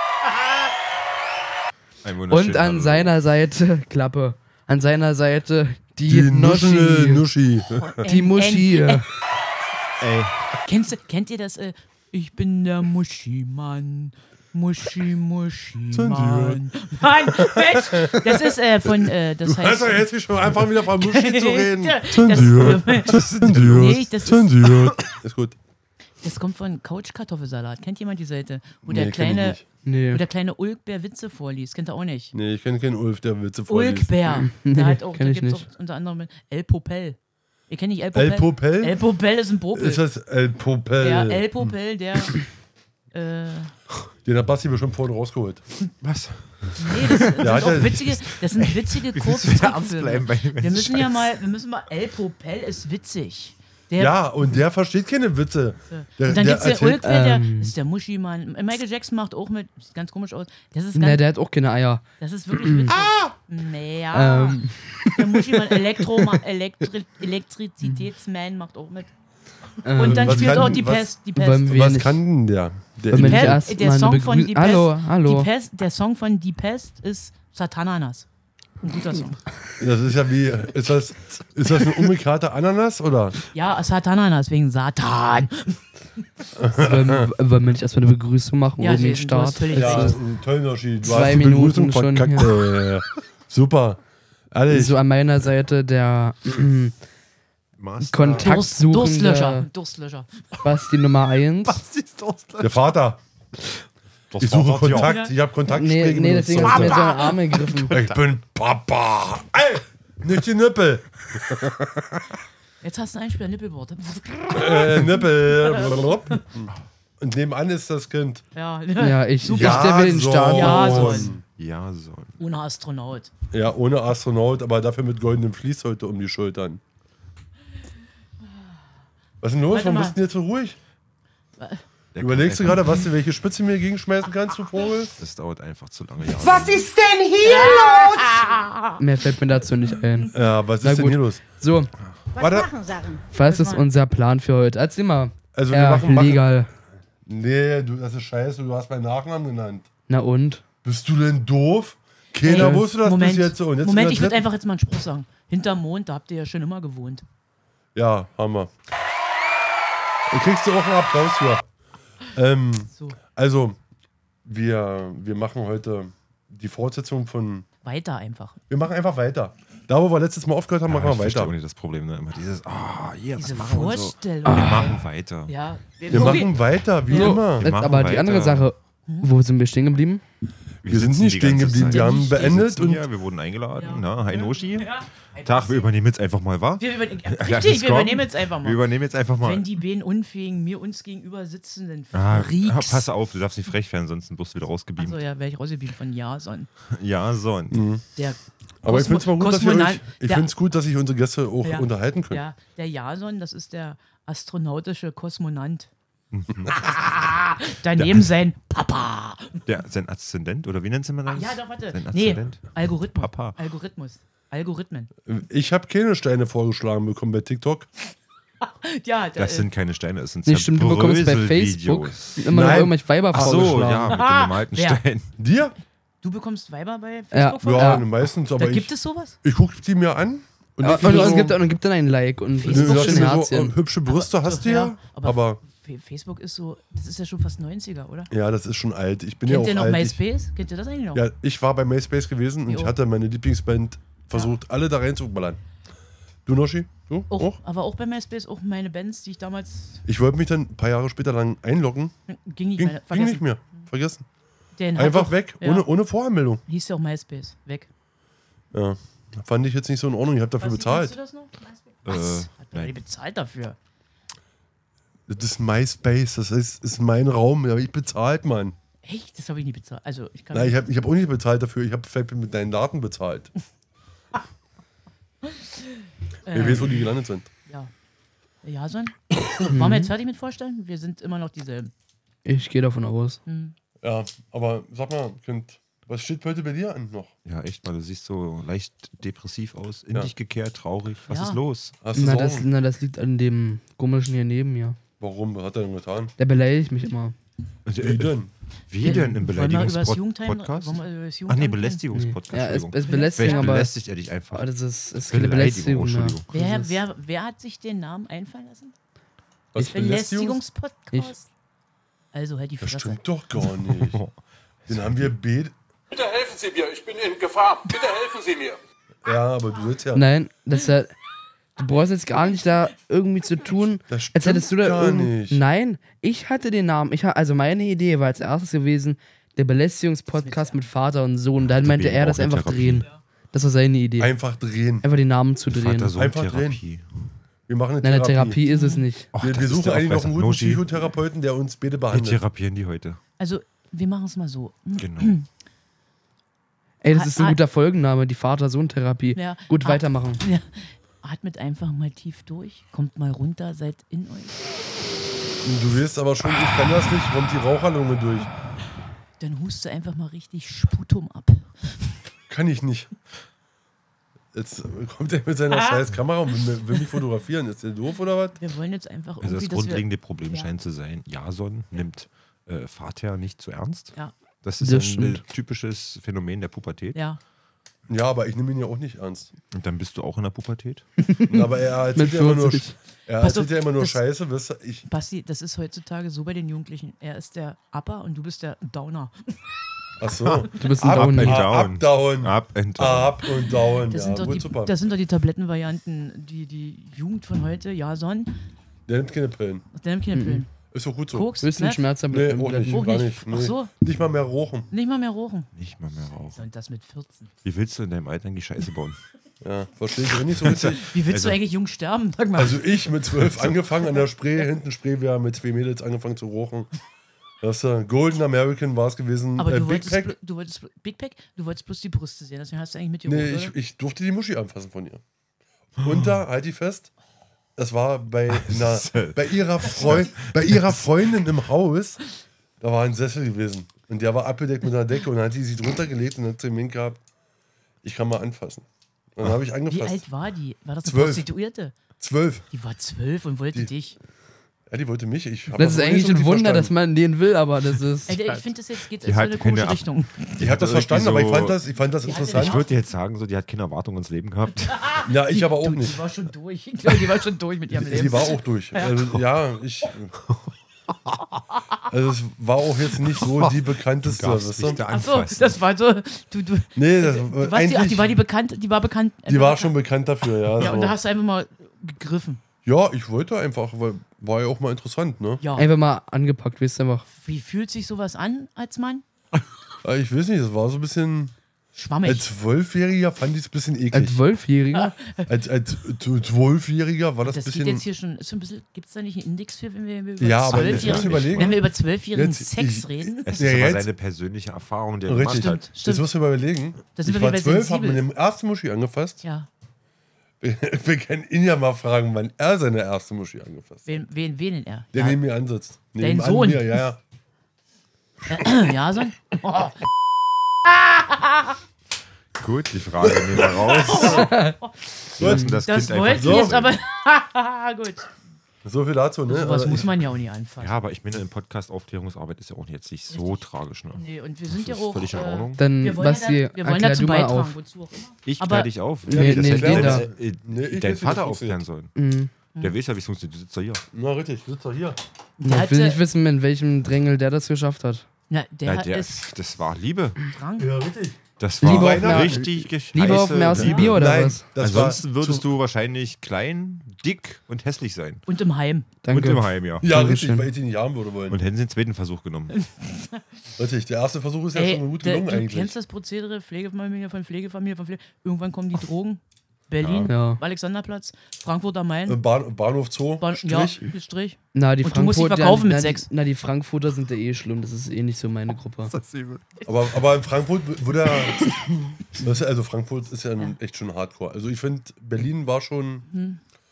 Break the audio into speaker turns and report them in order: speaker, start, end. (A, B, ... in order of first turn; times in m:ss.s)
0:02.0-0:03.1 A
0:02.3-0:07.2 B
0:06.0-0:08.0 C
0:07.8-0:09.0 D
0:08.0-0:09.0 B
0:10.0-0:10.4 A
0:10.6-0:20.1 D
0:15.9-0:16.6 C
0:17.3-0:25.6 C
0:20.9-0:24.9 D
0:23.0-0:23.9 A
0:26.2-0:32.3 D
0:28.8-0:29.6 C
0:29.8-0:30.2 B
0:32.3-0:34.1 C
0:33.7-0:37.2 D
0:34.3-0:35.6 B
0:37.7-0:40.0 D
0:38.1-0:39.0 C
0:39.7-0:41.7 C
0:41.0-0:42.4 D
0:43.1-0:43.7 D
0:44.2-0:45.6 C
0:46.0-0:51.3 A
0:46.8-0:54.2 D
0:47.4-0:48.1 C
0:54.0-0:57.0 C
0:55.9-1:01.2 D
0:57.0-0:57.7 B
1:00.9-1:02.0 B
1:02.2-1:09.1 D
1:02.6-1:02.9 B
1:04.1-1:06.4 B
1:09.8-1:10.8 B
1:09.9-1:11.8 D
1:10.0-1:11.2 C
1:11.4-1:12.2 B
1:11.7-1:13.6 C
1:13.1-1:15.5 B
1:13.2-1:18.2 D
1:18.8-1:19.4 D
1:19.8-1:23.4 C
1:23.5-1:25.8 D
1:26.6-1:27.3 C
1:26.7-1:30.2 B
1:28.8-1:30.2 D
1:29.7-1:34.0 C
1:31.0-1:32.6 B
1:34.5-1:35.0 C
1:34.7-1:36.9 B
1:37.8-1:38.6 A
1:38.0-1:39.7 B
1:38.4-1:40.3 D
1:40.6-1:41.8 B
1:41.6-1:42.9 A
1:42.6-1:43.2 C
1:44.3-1:45.2 A
1:44.4-1:47.1 C
1:44.9-1:45.3 D
1:45.7-1:47.9 B
1:46.7-1:47.3 D
1:47.6-1:48.2 A
1:47.9-1:52.4 C
1:52.8-1:56.1 D
1:54.5-1:58.4 C
1:58.5-2:01.3 D
1:59.0-2:01.3 B
1:59.5-2:01.4 C
2:01.6-2:02.4 A
2:02.4-2:03.3 D
2:03.5-2:06.8 C
2:09.4-2:10.8 C
2:09.7-2:10.2 D
2:11.6-2:11.8 D
2:12.1-2:13.0 A
2:12.2-2:15.1 C
2:15.2-2:16.9 A
2:16.4-2:18.3 E
2:17.4-2:19.0 D
2:19.0-2:21.9 B
2:20.0-2:20.3 D
2:20.3-2:21.4 C
2:22.3-2:22.8 C
2:22.4-2:23.2 E
2:23.3-2:26.7 B
2:23.3-2:23.8 D
2:25.5-2:26.4 C
2:27.2-2:29.9 C
2:30.1-2:30.6 B
2:30.8-2:34.5 C
2:32.4-2:37.2 D
2:32.5-2:32.9 B
2:37.9-2:38.7 C
2:40.3-2:41.6 C
2:42.3-2:43.8 C
2:44.4-2:47.6 C
2:47.8-2:48.6 D
2:48.7-2:51.5 C
2:50.9-2:55.5 A
2:53.4-2:56.5 D
2:54.4-2:54.8 B
2:56.1-2:57.8 C
2:57.1-2:57.4 D
2:57.1-3:00.2 B
2:57.4-2:58.7 A
3:00.8-3:03.1 C
3:00.8-3:09.7 A
3:01.8-3:02.6 D
3:03.7-3:05.9 D
3:06.8-3:13.1 D
3:12.1-3:15.2 A
3:15.0-3:16.7 D
3:16.9-3:17.8 A
3:17.7-3:18.0 C
3:18.2-3:20.5 D
3:18.8-3:22.4 C
3:21.6-3:25.9 D
3:26.3-3:27.0 A
3:26.7-3:29.6 D
3:28.0-3:28.3 A
3:29.6-3:33.6 A
3:31.2-3:35.1 D
3:35.2-3:37.9 C
3:38.6-3:39.7 D
3:39.4-3:45.3 A
3:40.4-3:43.9 B
3:42.5-3:44.2 C
3:44.1-3:45.0 D
3:45.4-3:45.7 C
3:46.2-3:49.4 D
3:47.3-3:48.0 B
3:47.6-3:51.6 C
3:50.8-3:53.7 B
3:51.0-3:51.4 D
3:52.6-3:53.4 D
3:52.7-3:55.6 C
3:54.0-3:58.3 D
3:58.3-4:00.2 C
3:59.4-4:01.2 D
4:01.1-4:05.6 C
4:02.7-4:02.9 D
4:06.4-4:07.6 C
4:07.3-4:10.0 D
4:10.0-4:12.1 C
4:12.3-4:13.8 D
4:12.8-4:14.2 C
4:14.8-4:15.9 D
4:15.0-4:16.6 C
4:16.7-4:17.9 D
4:18.7-4:21.2 C
4:20.6-4:23.8 D
4:22.0-4:22.9 A
4:25.3-4:28.8 C
4:29.0-4:30.8 D
4:30.5-4:33.5 C
4:35.4-4:37.0 D
4:36.5-4:37.5 C
4:37.6-4:37.9 D
4:38.6-4:41.9 D
4:39.7-4:40.1 B
4:42.4-4:43.4 B
4:43.4-4:43.7 D
4:44.0-4:47.3 C
4:47.4-4:51.9 A
4:51.3-4:51.6 D
4:52.0-4:52.7 C
4:52.1-4:55.0 B
4:55.2-4:56.3 C
4:56.4-4:57.3 B
4:57.8-4:58.4 A
4:58.0-4:58.5 C
4:58.9-5:04.7 A
4:59.0-5:02.0 D
5:02.1-5:03.9 B
5:03.0-5:03.9 D
5:04.5-5:07.0 B
5:05.3-5:06.4 A
5:06.5-5:08.9 D
5:09.7-5:10.6 C
5:09.9-5:11.5 D
5:12.3-5:13.2 D
5:12.8-5:14.2 C
5:13.6-5:14.3 A
5:14.9-5:15.3 A
5:14.9-5:15.7 C
5:16.1-5:18.8 F
5:19.2-5:20.3 C
5:20.1-5:21.1 B
5:21.8-5:34.3 B
5:24.1-5:25.6 C
5:30.4-5:30.8 D
5:31.6-5:33.1 A
5:34.2-5:35.0 C
5:35.0-5:36.1 B
5:35.7-5:37.0 A
5:36.1-5:36.8 C
5:37.7-5:38.6 C
5:38.0-5:39.3 B
5:38.7-5:39.0 D
5:39.4-5:41.0 A
5:39.4-5:42.4 C
5:42.1-5:43.2 A
5:43.4-5:45.5 D
5:45.0-5:45.4 A
5:47.0-5:50.4 B
5:47.1-5:47.6 D
5:49.3-5:54.6 D
5:55.6-5:58.5 C
5:59.4-6:02.1 D
6:02.5-6:03.1 C
6:04.5-6:08.6 C
6:05.7-6:06.1 D
6:08.6-6:10.7 D
6:09.4-6:17.2 A
6:14.8-6:15.4 B
6:18.1-6:19.5 C
6:19.7-6:21.0 A
6:21.2-6:23.0 B
6:21.5-6:25.0 C
6:23.4-6:24.2 D
6:25.0-6:29.5 D
6:30.2-6:34.9 C
6:30.3-6:33.5 A
6:30.8-6:31.6 B
6:34.1-6:38.6 D
6:39.1-6:39.8 C
6:39.9-6:40.7 D
6:40.3-6:40.6 B
6:40.9-6:41.5 C
6:41.3-6:42.1 D
6:41.6-6:43.0 B
6:42.3-6:44.9 C
6:42.9-6:43.9 D
6:44.9-6:45.7 D
6:45.7-6:46.6 A
6:46.5-6:47.5 D
6:47.6-6:49.2 A
6:49.6-6:51.1 C
6:50.4-6:51.6 A
6:51.0-6:52.8 D
6:52.6-6:56.9 C
6:53.4-6:53.7 A
6:57.6-7:00.3 C
6:59.6-7:03.7 D
7:03.2-7:05.2 C
7:06.0-7:07.1 C
7:07.8-7:12.2 C
7:08.5-7:10.8 A
7:12.8-7:17.2 C
7:18.0-7:20.2 C
7:19.9-7:22.0 D
7:21.0-7:21.5 C
7:22.2-7:22.6 C
7:22.7-7:24.2 D
7:24.9-7:26.9 C
7:25.7-7:28.6 B
7:28.3-7:30.5 D
7:29.2-7:31.8 A
7:30.6-7:32.8 C
7:32.2-7:33.0 D
7:32.5-7:35.1 A
7:34.9-7:39.4 D
7:35.2-7:36.2 C
7:37.9-7:40.3 C
7:42.1-7:45.0 C
7:43.4-7:45.8 A
7:45.0-7:50.0 D
7:47.0-7:48.4 C
7:49.5-7:51.2 C
7:50.8-7:52.6 D
7:52.8-7:55.6 C
7:55.6-7:55.9 D
7:55.8-7:57.2 B
7:57.4-7:59.2 D
8:00.0-8:01.5 C
8:01.9-8:02.5 D
8:02.2-8:04.4 C
8:04.1-8:05.1 B
8:04.9-8:05.5 D
8:05.5-8:08.0 C
8:07.4-8:13.5 D
8:10.4-8:11.8 C
8:10.7-8:11.8 A
8:12.3-8:14.1 C
8:13.4-8:15.8 A
8:15.2-8:19.4 C
8:15.5-8:16.3 D
8:17.2-8:18.2 D
8:19.4-8:19.7 D
8:20.6-8:24.1 C
8:24.0-8:25.4 D
8:25.1-8:27.2 C
8:26.2-8:27.0 D
8:28.5-8:30.0 D
8:30.8-8:31.7 D
8:32.6-8:34.6 A
8:33.2-8:34.3 C
8:33.6-8:34.9 D
8:34.3-8:34.8 B
8:35.4-8:37.0 A
8:35.4-8:35.7 C
8:35.4-8:35.8 B
8:35.8-8:38.3 D
8:36.3-8:36.8 C
8:38.8-8:40.2 C
8:39.5-8:41.0 D
8:40.8-8:45.8 A
8:43.3-8:48.9 D
8:45.8-8:47.7 B
8:48.4-8:52.1 A
8:49.2-8:50.2 B
8:49.3-8:51.8 C
8:52.1-8:52.5 B
8:52.8-8:54.0 A
8:54.1-8:55.2 C
8:55.6-8:56.2 D
8:55.6-8:58.2 B
8:58.5-8:59.5 D
8:58.8-9:00.4 A
9:00.5-9:00.9 D
9:00.8-9:02.7 C
9:01.6-9:08.4 A
9:01.8-9:04.6 B
9:03.7-9:05.6 C
9:08.5-9:09.1 D
9:09.2-9:10.7 B
9:09.3-9:10.1 A
9:10.0-9:11.6 C
9:11.5-9:12.8 A
9:12.7-9:13.4 D
9:13.8-9:15.9 C
9:14.7-9:22.4 D
9:20.0-9:20.3 A
9:20.3-9:20.6 B
9:22.3-9:24.0 C
9:23.4-9:26.3 D
9:24.7-9:29.1 B
9:29.1-9:29.6 A
9:29.8-9:36.2 C
9:36.3-9:36.6 D